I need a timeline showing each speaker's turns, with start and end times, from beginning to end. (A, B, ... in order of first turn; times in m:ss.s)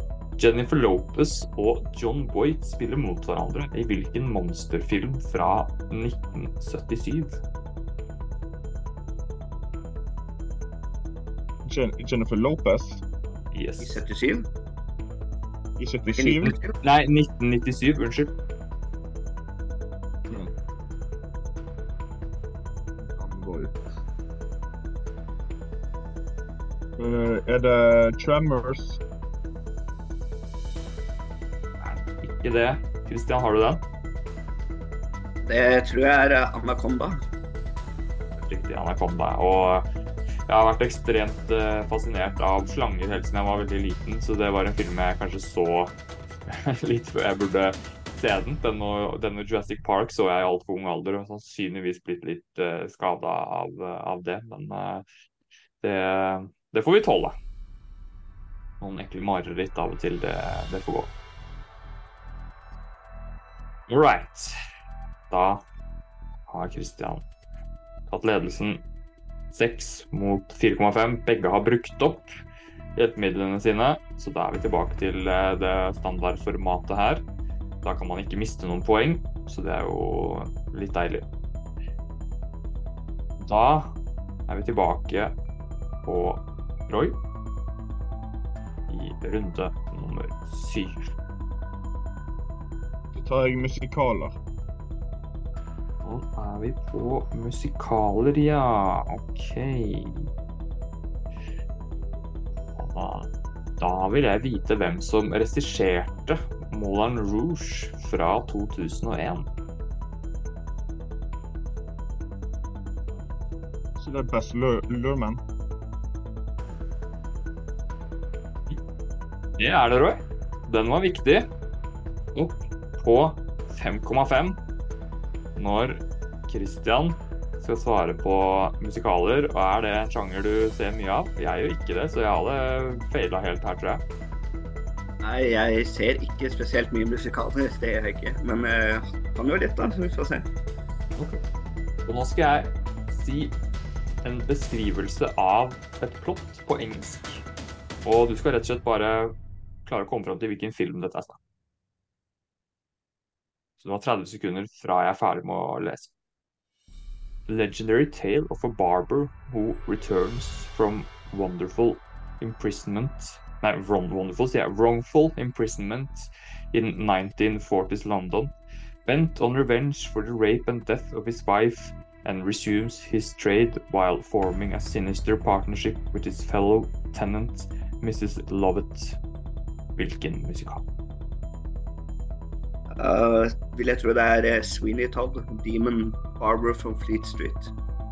0:00.4-0:07.4 A
0:11.6-0:13.0 B
0:13.5-0:14.0 A
0:13.8-0:14.5 C
0:15.8-0:16.6 B
0:16.2-0:16.8 C
0:16.4-0:18.3 A
0:23.0-0:23.9 B
0:27.0-0:29.0 B
0:31.8-0:33.8 A
0:35.4-0:37.2 C
0:38.4-0:39.8 A
0:40.5-0:46.0 A
0:46.5-0:55.0 A
0:55.8-0:57.4 A
0:58.8-1:01.1 A
1:03.9-1:04.6 A
1:05.3-1:05.6 A
1:06.5-1:07.3 A
1:08.1-1:08.8 A
1:09.5-1:12.3 A
1:13.0-1:17.2 A
1:17.8-1:21.3 A
1:23.4-1:24.0 A
1:24.5-1:25.4 A
1:26.0-1:27.2 A
1:28.9-1:31.0 A
1:33.1-1:34.4 B
1:36.0-1:40.2 A
1:42.8-1:49.5 A
1:54.0-1:55.4 B
1:59.6-2:01.5 A
2:02.4-2:04.6 A
2:05.6-2:14.0 A
2:15.2-2:20.5 C
2:22.1-2:23.6 A
2:24.2-2:27.4 A
2:28.0-2:29.3 A
2:29.9-2:31.4 A
2:33.8-2:36.1 A
2:37.5-2:48.5 A
2:49.1-2:59.2 A
3:00.0-3:00.8 A
3:03.0-3:07.7 C